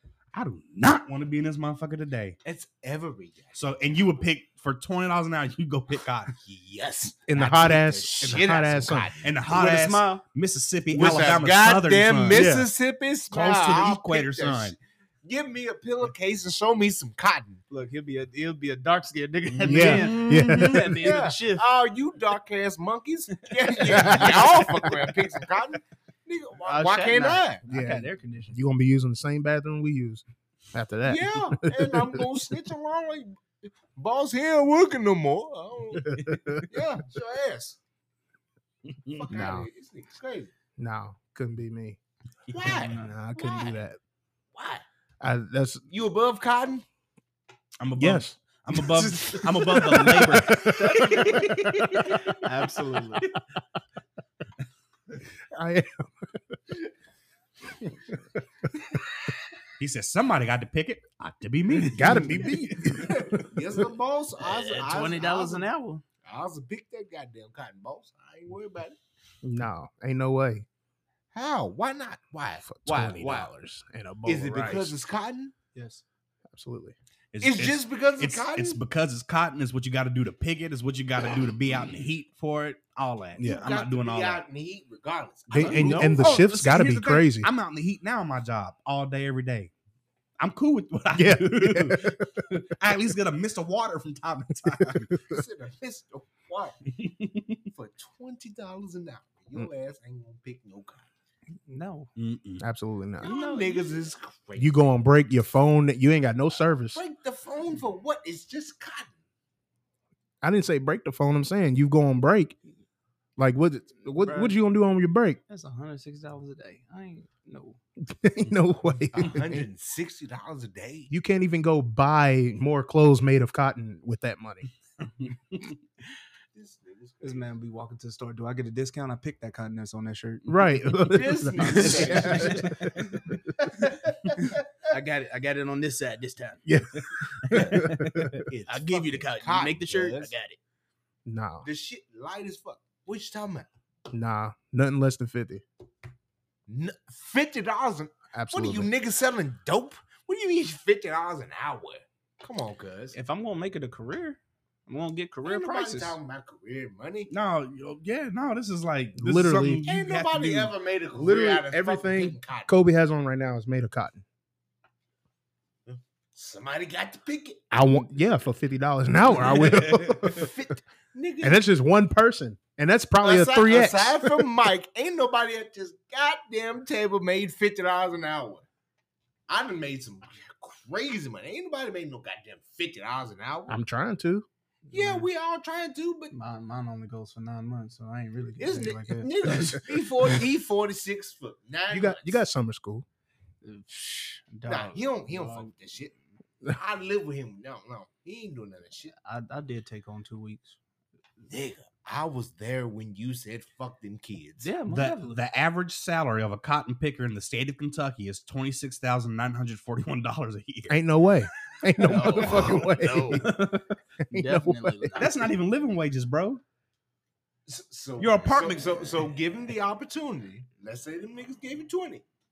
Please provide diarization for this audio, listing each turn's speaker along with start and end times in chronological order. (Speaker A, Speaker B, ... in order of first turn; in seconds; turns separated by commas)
Speaker A: 0.3-2.4, Speaker B: 2.4-3.7, Speaker A: 3.5-6.3, Speaker B: 6.4-9.3, Speaker C: 7.3-9.1, Speaker A: 9.2-12.5, Speaker D: 9.5-10.2, Speaker B: 10.9-17.6, Speaker C: 12.3-12.7, Speaker A: 13.3-14.8, Speaker D: 17.7-21.6, Speaker A: 19.5-20.9, Speaker C: 19.6-20.9, Speaker B: 20.9-27.6, Speaker C: 23.8-24.9, Speaker D: 23.9-24.2, Speaker D: 26.6-28.6, Speaker C: 27.7-32.3, Speaker B: 31.1-37.8, Speaker C: 36.0-36.7, Speaker A: 38.9-39.2, Speaker B: 39.1-40.5, Speaker C: 39.3-39.7, Speaker C: 40.8-42.0, Speaker B: 42.5-43.8, Speaker D: 42.6-43.2, Speaker C: 42.8-44.0, Speaker B: 44.5-44.9, Speaker C: 45.2-45.8, Speaker B: 45.9-46.9, Speaker A: 47.8-52.4, Speaker C: 48.0-52.3, Speaker D: 50.8-51.3, Speaker D: 52.3-53.3, Speaker C: 55.5-56.1, Speaker A: 59.8-63.5, Speaker C: 61.9-63.2, Speaker B: 62.9-65.7, Speaker D: 64.4-66.0, Speaker B: 66.2-69.0, Speaker C: 69.4-70.7, Speaker B: 71.3-73.5, Speaker C: 72.6-75.0, Speaker B: 74.2-75.5, Speaker D: 75.7-76.0, Speaker C: 76.5-77.0, Speaker A: 77.3-84.5, Speaker B: 77.4-78.8, Speaker C: 83.4-83.7, Speaker B: 83.4-86.4, Speaker C: 85.5-87.5, Speaker A: 85.5-89.7, Speaker A: 90.4-95.1, Speaker C: 91.1-92.6, Speaker C: 94.8-95.4, Speaker B: 95.2-96.8, Speaker A: 97.0-97.6, Speaker B: 97.7-101.1, Speaker D: 101.7-102.1, Speaker A: 102.2-102.6, Speaker C: 102.6-103.3, Speaker D: 103.2-104.0, Speaker B: 103.2-104.8, Speaker C: 104.6-107.0, Speaker B: 106.9-109.2, Speaker C: 110.4-112.6, Speaker C: 113.4-115.4, Speaker D: 114.2-114.6, Speaker D: 115.5-117.8, Speaker C: 118.0-119.7, Speaker B: 119.2-121.1, Speaker C: 121.1-124.7, Speaker A: 125.2-125.6, Speaker B: 126.5-127.5, Speaker D: 127.2-130.6, Speaker C: 130.5-132.8, Speaker B: 131.1-133.0, Speaker D: 131.6-133.8, Speaker B: 134.2-134.7, Speaker D: 134.4-136.7, Speaker C: 136.7-138.4, Speaker A: 137.5-138.4, Speaker B: 138.5-140.3, Speaker D: 138.7-140.6, Speaker C: 141.3-141.7, Speaker B: 141.6-143.7, Speaker C: 144.1-145.6, Speaker B: 146.7-153.2, Speaker C: 148.3-148.9, Speaker D: 153.1-156.2, Speaker B: 155.4-157.3, Speaker A: 157.3-160.7, Speaker C: 159.2-159.8, Speaker B: 159.8-162.7, Speaker C: 161.1-164.2, Speaker B: 165.9-167.8, Speaker C: 167.7-170.5, Speaker A: 169.4-170.4, Speaker B: 169.5-171.6, Speaker C: 171.4-174.5, Speaker B: 173.2-178.7, Speaker B: 179.5-183.8, Speaker C: 183.7-184.5, Speaker D: 184.9-185.3, Speaker B: 184.9-186.3, Speaker D: 186.3-189.8, Speaker B: 188.6-192.4, Speaker C: 191.9-193.1, Speaker D: 193.6-195.7, Speaker B: 194.7-196.1, Speaker B: 196.7-199.1, Speaker D: 199.1-200.8, Speaker B: 201.5-204.7, Speaker D: 204.6-205.4, Speaker A: 204.9-211.0, Speaker C: 210.9-213.8, Speaker D: 212.0-213.7, Speaker A: 212.5-213.8, Speaker C: 214.3-215.2, Speaker D: 214.3-215.5, Speaker A: 215.2-216.6, Speaker B: 217.7-222.2, Speaker A: 218.2-219.1